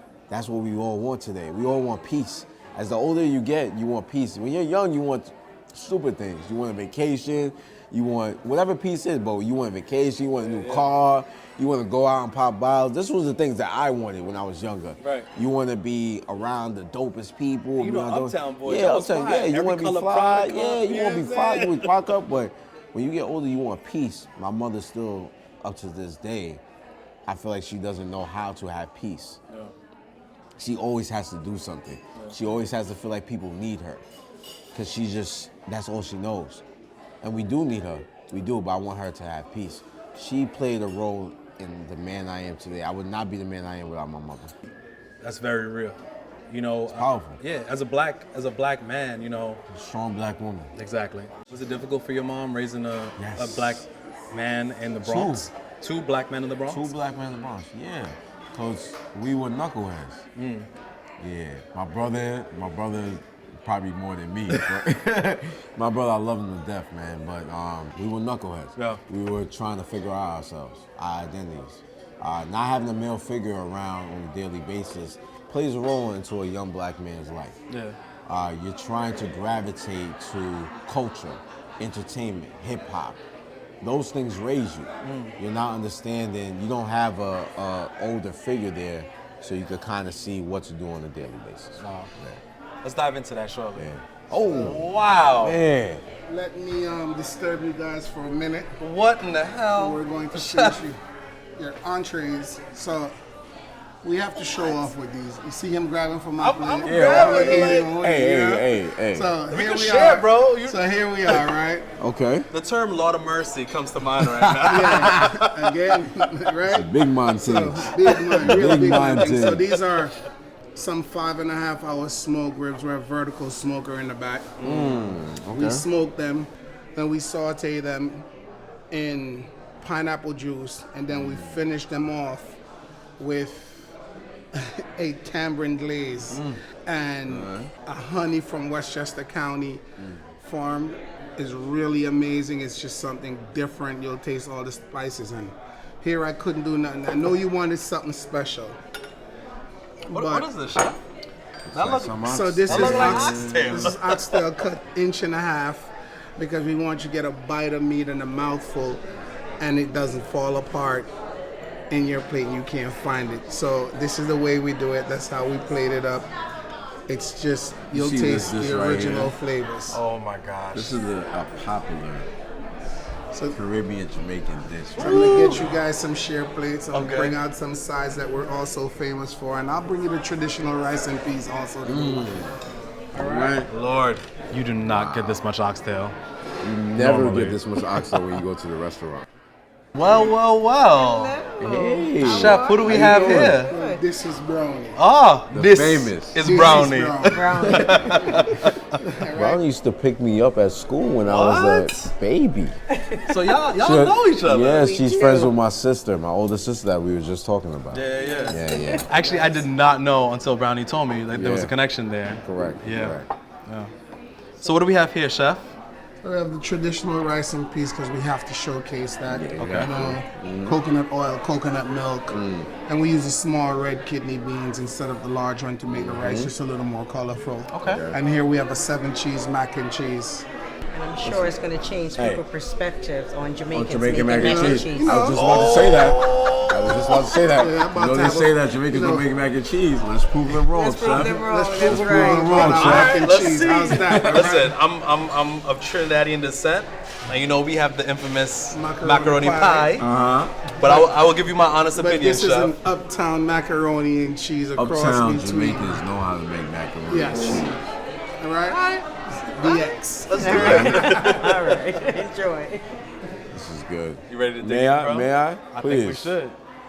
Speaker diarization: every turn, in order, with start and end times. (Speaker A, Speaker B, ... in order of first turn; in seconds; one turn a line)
Speaker A: 0.3-26.6
Speaker B: 10.4-10.9
Speaker B: 15.0-15.3
Speaker B: 17.8-22.1
Speaker A: 27.3-29.4
Speaker A: 30.6-34.0
Speaker A: 34.7-36.6
Speaker A: 37.2-44.5
Speaker B: 45.2-46.0
Speaker B: 46.5-49.6
Speaker A: 46.9-47.4
Speaker A: 49.7-50.7
Speaker B: 50.8-56.9
Speaker A: 53.2-53.8
Speaker A: 55.0-55.5
Speaker A: 56.7-60.2
Speaker B: 60.4-60.7
Speaker A: 61.2-77.5
Speaker B: 77.7-78.0
Speaker A: 78.3-83.2
Speaker A: 83.8-92.4
Speaker B: 85.0-85.4
Speaker B: 91.8-92.1
Speaker B: 92.8-93.9
Speaker A: 93.8-96.0
Speaker B: 94.5-95.6
Speaker C: 96.3-98.8
Speaker B: 98.8-100.8
Speaker C: 99.7-101.0
Speaker C: 101.6-103.2
Speaker C: 104.0-111.9
Speaker B: 106.4-107.9
Speaker A: 106.8-109.3
Speaker B: 109.5-111.4
Speaker A: 112.0-112.5
Speaker B: 112.5-115.7
Speaker A: 114.2-115.2
Speaker C: 114.6-120.2
Speaker A: 116.7-119.7
Speaker B: 118.2-119.8
Speaker C: 120.8-124.7
Speaker B: 124.6-125.2
Speaker A: 124.6-125.8
Speaker C: 125.5-128.3
Speaker C: 128.9-132.6
Speaker A: 131.1-131.6
Speaker C: 133.2-133.9
Speaker C: 134.5-139.8
Speaker A: 137.3-137.7
Speaker C: 140.4-148.8
Speaker C: 150.1-150.5
Speaker B: 150.1-151.0
Speaker A: 151.7-153.9
Speaker B: 151.7-154.3
Speaker C: 152.2-159.0
Speaker C: 159.6-161.1
Speaker C: 161.9-166.3
Speaker C: 167.1-170.0
Speaker A: 167.9-169.3
Speaker B: 169.9-170.9
Speaker A: 170.7-172.3
Speaker C: 173.3-173.6
Speaker A: 173.5-175.5
Speaker C: 175.0-182.3
Speaker B: 175.0-175.7
Speaker B: 176.9-177.4
Speaker A: 181.8-182.6
Speaker C: 183.1-183.6
Speaker A: 183.2-183.7
Speaker B: 183.7-186.2
Speaker A: 184.9-185.4
Speaker A: 186.6-189.3
Speaker B: 187.0-188.4
Speaker B: 189.9-191.4
Speaker D: 190.9-194.0
Speaker A: 191.6-193.6
Speaker B: 192.2-193.7
Speaker C: 192.8-195.0
Speaker B: 195.0-198.8
Speaker A: 195.5-196.5
Speaker C: 196.4-199.6
Speaker D: 197.2-198.3
Speaker A: 199.4-202.8
Speaker B: 201.2-202.1
Speaker D: 202.9-203.4
Speaker B: 203.3-204.9
Speaker A: 203.8-209.1
Speaker D: 204.8-205.5
Speaker B: 207.9-213.9
Speaker D: 208.2-209.6
Speaker A: 211.3-211.7
Speaker A: 212.4-213.3
Speaker B: 214.6-215.7
Speaker C: 216.2-230.5
Speaker A: 219.3-220.8
Speaker B: 219.6-219.9
Speaker A: 222.3-222.7
Speaker A: 225.9-226.5
Speaker B: 227.7-228.0
Speaker A: 227.8-228.2
Speaker D: 230.9-235.2
Speaker A: 231.2-231.6
Speaker A: 232.2-232.4
Speaker A: 233.7-243.4
Speaker C: 234.3-236.0
Speaker B: 235.2-237.3
Speaker C: 236.9-239.3
Speaker D: 240.7-242.9
Speaker C: 241.1-244.7
Speaker B: 242.6-250.1
Speaker A: 244.0-244.5
Speaker C: 248.7-250.0
Speaker A: 250.0-250.5
Speaker B: 250.8-252.8
Speaker C: 250.8-251.1
Speaker C: 251.9-256.0
Speaker A: 254.8-257.8
Speaker C: 257.1-257.7
Speaker C: 258.4-261.0
Speaker B: 258.7-259.0
Speaker B: 260.3-261.8
Speaker D: 260.4-263.0
Speaker A: 260.5-261.4
Speaker A: 263.5-266.4
Speaker B: 264.3-266.6